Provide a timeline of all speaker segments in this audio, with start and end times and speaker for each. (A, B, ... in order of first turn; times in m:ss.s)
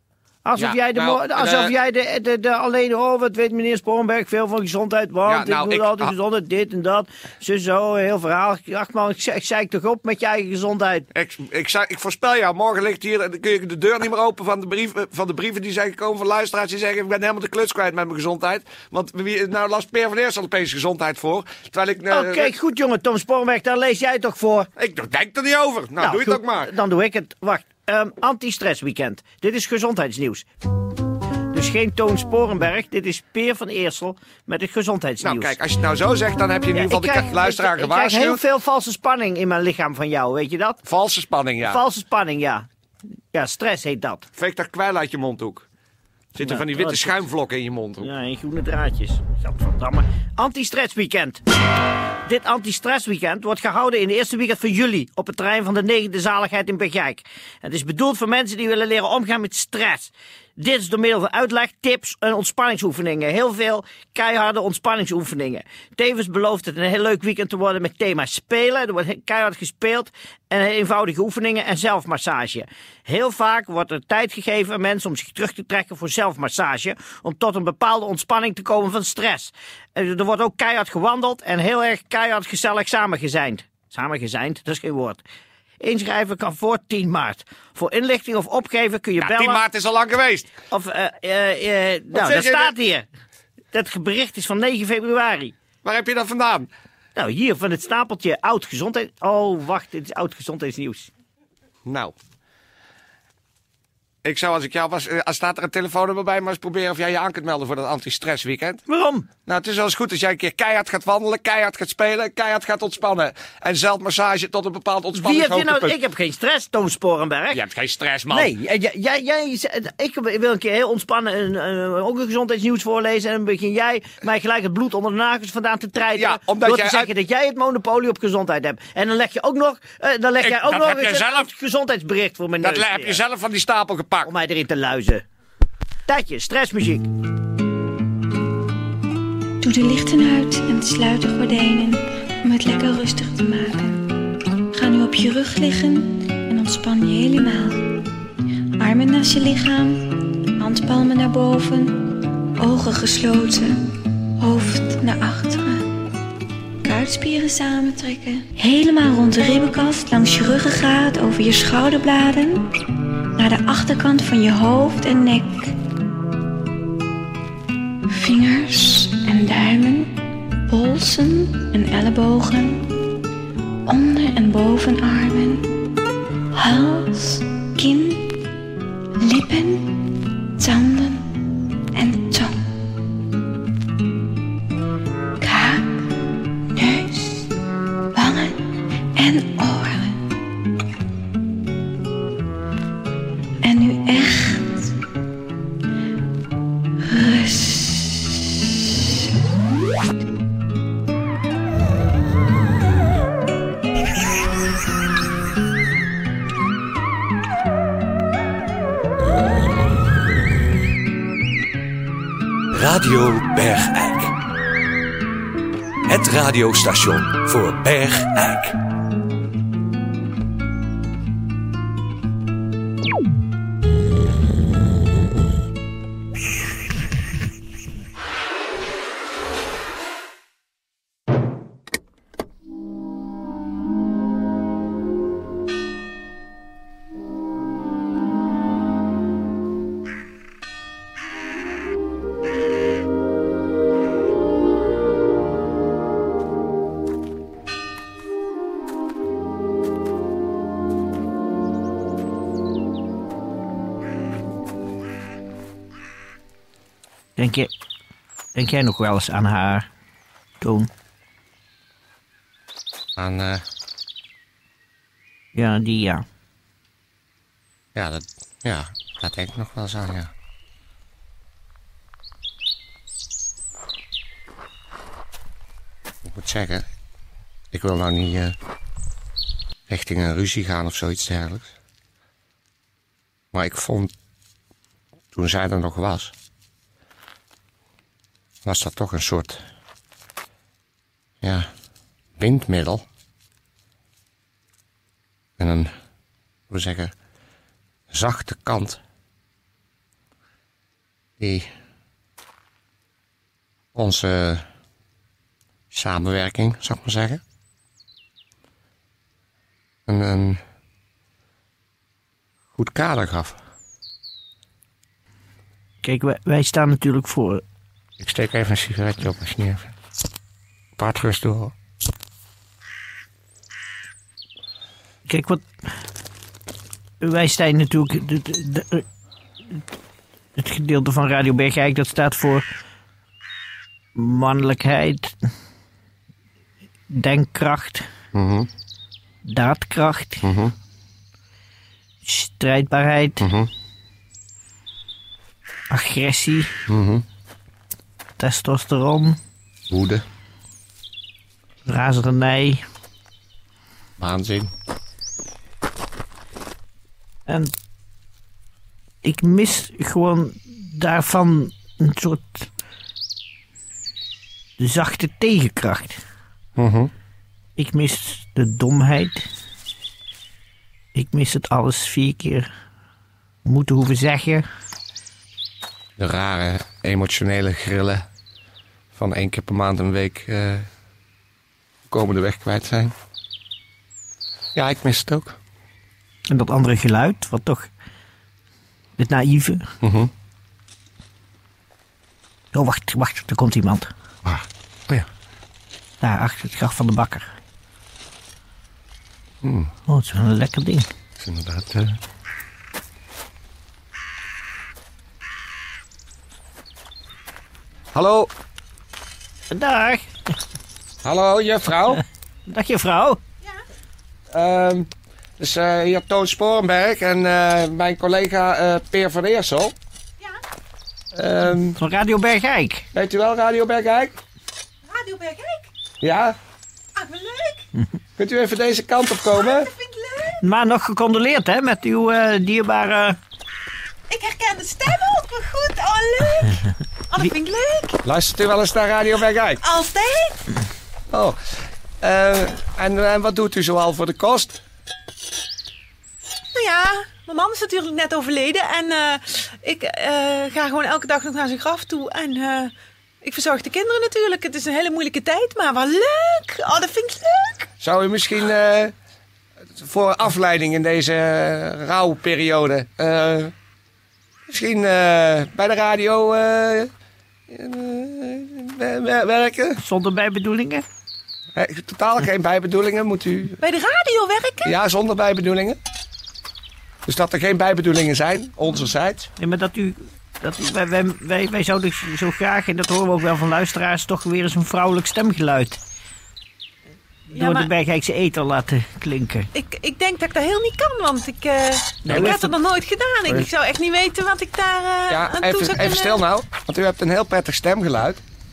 0:00.4-0:11.1 A
0:00.6-0:01.7 B
0:05.2-0:06.1 B
0:11.1-0:22.5 B
0:22.1-0:24.7 A
0:24.8-0:26.7 B
0:26.0-0:30.5 A
0:31.5-0:35.6 A
0:35.2-0:38.4 B
0:36.7-0:40.8 A
0:40.8-0:41.8 B
0:41.6-0:42.7 A
0:43.3-0:44.3 A
0:44.3-0:45.6 B
0:46.3-0:48.1 B
0:46.4-0:47.2 A
0:48.0-0:51.4 A
0:52.2-1:25.2 A
1:25.8-1:29.6 A
1:29.2-1:30.5 B
1:30.7-1:33.0 A
1:32.1-1:32.8 B
1:33.7-1:35.5 A
1:35.8-1:36.7 B
1:37.2-1:41.1 A
1:41.8-1:42.1 B
1:44.2-1:48.8 B
1:48.9-1:49.3 A
1:49.4-1:56.0 B
1:55.1-1:57.6 A
1:57.5-1:58.5 B
1:58.3-2:13.2 A
2:06.1-2:07.1 B
2:10.4-2:11.5 B
2:12.6-2:14.3 B
2:14.2-2:15.2 A
2:16.1-2:17.1 A
2:19.6-2:24.1 C
2:24.7-2:27.8 C
2:28.8-2:33.8 C
2:34.4-2:35.9 C
2:36.8-2:42.7 C
2:43.4-2:45.8 C
2:48.1-2:52.9 C
2:53.8-2:55.7 C
2:56.5-2:58.4 C
2:59.2-3:02.6 C
3:05.4-3:06.0 C
3:06.7-3:07.5 C
3:08.1-3:10.2 C
3:13.6-3:14.7 C
3:17.0-3:18.4 C
3:32.7-3:34.3 D
3:36.1-3:38.8 D
4:17.4-4:17.7 A
4:18.5-4:19.9 A
4:20.6-4:20.9 A
4:23.2-4:23.6 B
4:25.5-4:26.2 A
4:27.9-4:30.3 B
4:36.2-4:36.8 B
4:37.7-4:38.6 B
4:39.9-4:41.7 B
4:43.5-4:44.1 B
4:45.3-4:46.3 B
4:48.6-4:49.6 B
4:51.4-4:51.7 B
4:52.4-4:53.0 B
4:55.6-4:55.9 B
4:56.7-4:57.1 B
4:58.1-4:59.0 B
5:01.4-5:01.7 B
5:03.9-5:04.6 B
5:05.9-5:07.4 B
5:10.1-5:10.6 B
5:12.7-5:13.6 B
5:16.0-5:17.6 A
5:18.2-5:19.9 B
5:21.0-5:21.7 B
5:25.2-5:25.6 A
5:27.2-5:29.0 A
5:30.6-5:32.6 A
5:34.1-5:35.4 A
5:37.1-5:38.1 A
5:38.3-5:38.7 B
5:39.4-5:40.5 A
5:40.4-5:40.7 B
5:42.2-5:43.4 A
5:43.4-5:43.7 B
5:45.9-5:46.8 A
5:46.9-5:47.2 B
5:48.4-5:49.4 A
5:49.9-5:50.2 B
5:51.8-5:52.8 A
5:54.2-5:54.7 B
5:57.5-5:57.7 A
5:59.2-6:02.7 A
6:04.8-6:06.2 A
6:06.8-6:07.1 B
6:07.8-6:09.4 A
6:11.1-6:12.7 A
6:13.6-6:14.6 A
6:16.2-6:18.2 B
6:19.1-6:20.8 B
6:22.1-6:23.1 B
6:24.7-6:25.6 B
6:26.5-6:27.9 A
6:29.2-6:29.9 A
6:30.0-6:30.3 B
6:32.7-6:34.1 A
6:34.4-6:35.2 B
6:36.2-6:37.5 A
6:39.6-6:39.9 B
6:40.1-6:41.1 A
6:41.4-6:42.2 B
6:48.1-6:48.5 B
6:49.7-6:50.3 A
6:51.2-6:52.2 B
6:52.7-6:53.4 A
6:54.5-7:00.0 B
7:01.3-7:02.0 B
7:01.9-7:03.1 A
7:03.1-7:04.4 B
7:05.1-7:05.9 E
7:06.2-7:06.6 B
7:07.2-7:07.9 E
7:08.4-7:09.9 B
7:09.6-7:10.6 E
7:10.6-7:13.4 A
7:14.3-7:18.2 E
7:18.2-7:19.8 B
7:19.8-7:20.6 E
7:21.3-7:21.6 B
7:22.2-7:24.8 B
7:26.7-7:37.9 E
7:38.0-7:39.1 B
7:40.0-7:43.7 B
7:44.7-7:47.1 B
7:47.7-7:50.0 B
7:50.0-7:51.0 A
7:51.7-7:53.8 B
7:53.8-7:54.9 E
7:54.8-7:56.0 B
7:57.2-7:59.5 B
7:59.6-8:06.0 A
8:07.5-8:09.7 A
8:07.5-8:07.9 E
8:09.7-8:16.4 E
8:12.2-8:12.7 A
8:12.3-8:12.5 B
8:15.3-8:18.4 B